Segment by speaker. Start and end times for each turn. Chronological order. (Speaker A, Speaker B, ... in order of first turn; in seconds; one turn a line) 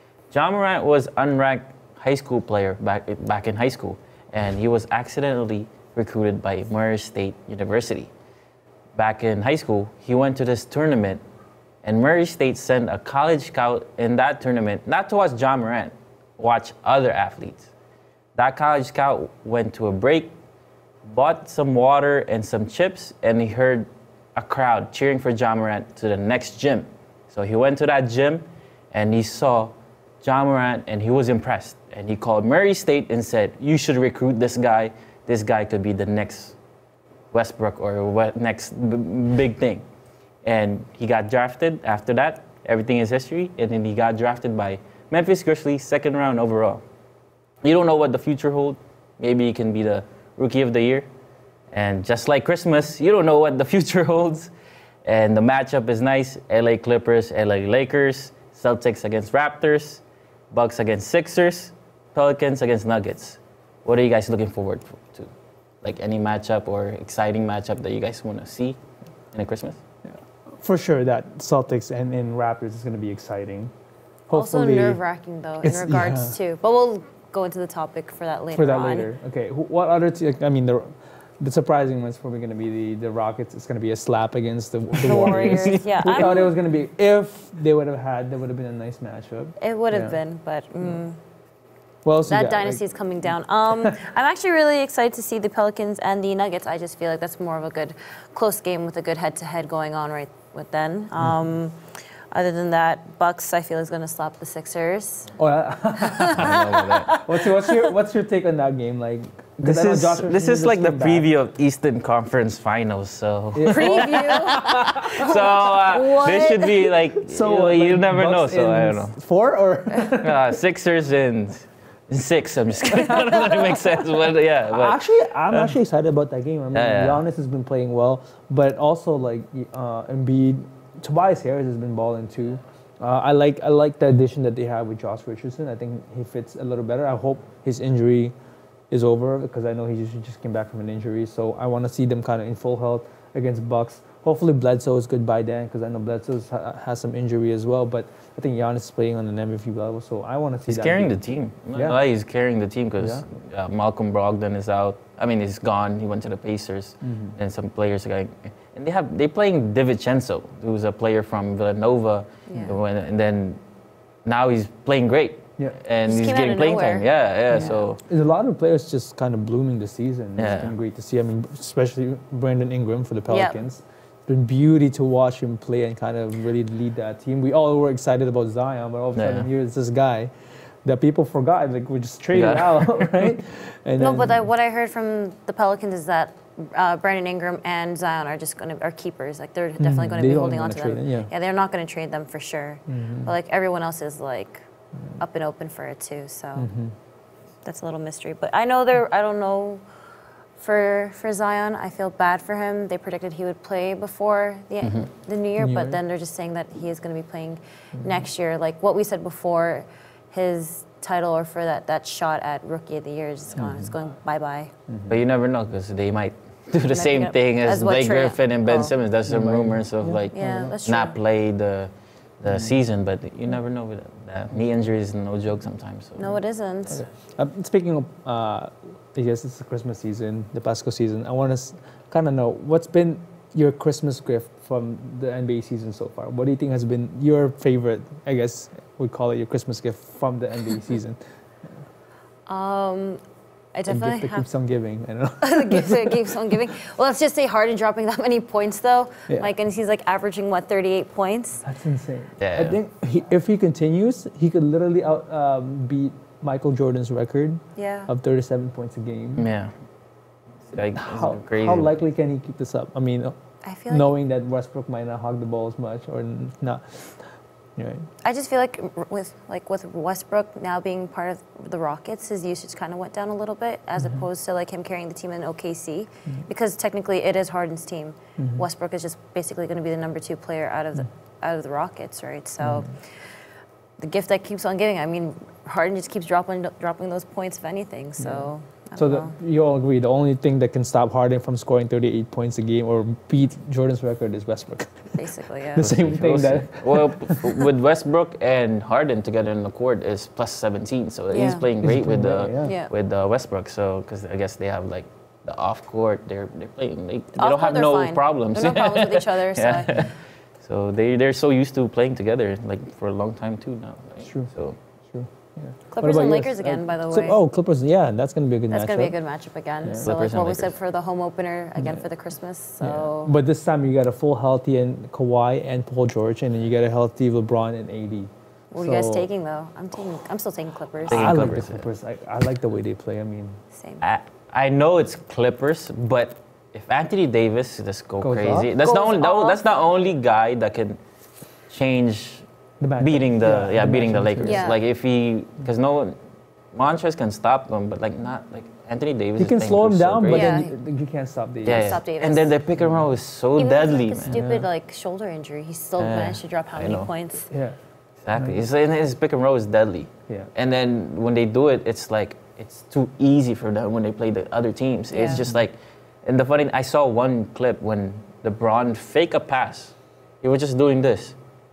Speaker A: 0.3-8.1
Speaker A: 9.0-11.2
Speaker A: 11.8-17.7
Speaker A: 18.4-20.3
Speaker A: 21.1-36.6
Speaker A: 37.3-39.8
Speaker A: 40.5-46.8
Speaker A: 47.6-51.1
Speaker A: 51.7-54.5
Speaker A: 55.0-65.3
Speaker A: 65.8-68.8
Speaker A: 69.3-69.8
Speaker B: 70.0-73.7
Speaker B: 74.3-75.0
Speaker C: 74.3-79.1
Speaker B: 75.6-76.4
Speaker B: 78.5-90.2
Speaker A: 85.0-86.4
Speaker C: 85.0-86.6
Speaker C: 89.6-91.2
Speaker B: 92.0-92.8
Speaker C: 92.3-101.8
Speaker C: 102.3-105.3
Speaker B: 105.3-106.6
Speaker C: 106.0-107.9
Speaker A: 106.3-107.1
Speaker B: 107.2-111.3
Speaker A: 109.6-119.2
Speaker B: 113.5-114.9
Speaker C: 113.7-116.9
Speaker B: 117.2-120.6
Speaker A: 120.2-125.0
Speaker B: 122.9-123.7
Speaker B: 124.7-138.3
Speaker A: 125.5-125.8
Speaker A: 126.7-127.2
Speaker B: 138.9-151.2
Speaker A: 150.7-163.6
Speaker B: 151.7-152.0
Speaker B: 153.0-153.2
Speaker B: 157.0-157.3
Speaker C: 162.5-162.8
Speaker A: 164.2-168.0
Speaker C: 166.1-167.1
Speaker B: 167.5-180.3
Speaker A: 170.4-170.8
Speaker C: 173.3-173.6
Speaker A: 179.1-179.5
Speaker B: 180.8-184.5
Speaker A: 182.3-183.3
Speaker C: 184.0-194.7
Speaker B: 189.8-191.3
Speaker B: 192.9-193.3
Speaker C: 195.2-196.7
Speaker B: 196.6-196.9
Speaker C: 197.6-199.8
Speaker C: 200.6-214.7
Speaker B: 205.6-206.0
Speaker B: 207.9-208.2
Speaker B: 213.5-213.9
Speaker B: 214.9-215.2
Speaker A: 215.1-227.0
Speaker C: 216.9-218.9
Speaker B: 219.3-220.8
Speaker C: 220.3-221.2
Speaker B: 222.5-222.8
Speaker C: 226.2-227.0
Speaker B: 226.9-241.2
Speaker C: 242.5-243.2
Speaker C: 243.7-244.5
Speaker B: 243.9-246.5
Speaker C: 245.4-251.6
Speaker B: 251.6-259.4
Speaker A: 252.4-252.8
Speaker C: 257.8-258.1
Speaker A: 259.4-259.7
Speaker A: 260.7-262.0
Speaker B: 260.8-263.4
Speaker C: 263.6-264.1
Speaker B: 263.9-268.1
Speaker C: 268.2-283.4
Speaker B: 274.0-274.2
Speaker B: 278.4-278.6
Speaker B: 282.6-282.9
Speaker C: 284.0-289.3
Speaker B: 288.2-297.7
Speaker C: 295.1-295.9
Speaker A: 295.8-314.8
Speaker C: 301.3-301.7
Speaker B: 301.7-302.8
Speaker C: 302.6-302.9
Speaker C: 307.4-310.1
Speaker B: 314.2-314.5
Speaker B: 315.1-319.1
Speaker C: 315.9-317.4
Speaker C: 318.7-323.3
Speaker B: 319.8-320.1
Speaker A: 320.0-320.7
Speaker B: 321.8-322.0
Speaker B: 322.8-329.3
Speaker C: 328.7-331.4
Speaker A: 331.1-331.9
Speaker B: 331.1-333.6
Speaker C: 333.7-334.0
Speaker A: 334.0-341.0
Speaker B: 338.2-338.7
Speaker C: 338.8-339.9
Speaker A: 341.7-342.5
Speaker B: 342.8-344.8
Speaker A: 343.0-346.1
Speaker C: 344.4-344.8
Speaker A: 346.7-350.6
Speaker B: 349.4-352.0
Speaker C: 350.3-350.8
Speaker A: 351.6-354.4
Speaker C: 351.6-352.6
Speaker B: 352.8-353.1
Speaker C: 353.6-357.5
Speaker B: 354.3-354.7
Speaker A: 356.0-357.1
Speaker B: 357.5-357.8
Speaker A: 358.2-371.4
Speaker B: 358.3-358.6
Speaker C: 365.1-365.4
Speaker B: 365.3-365.6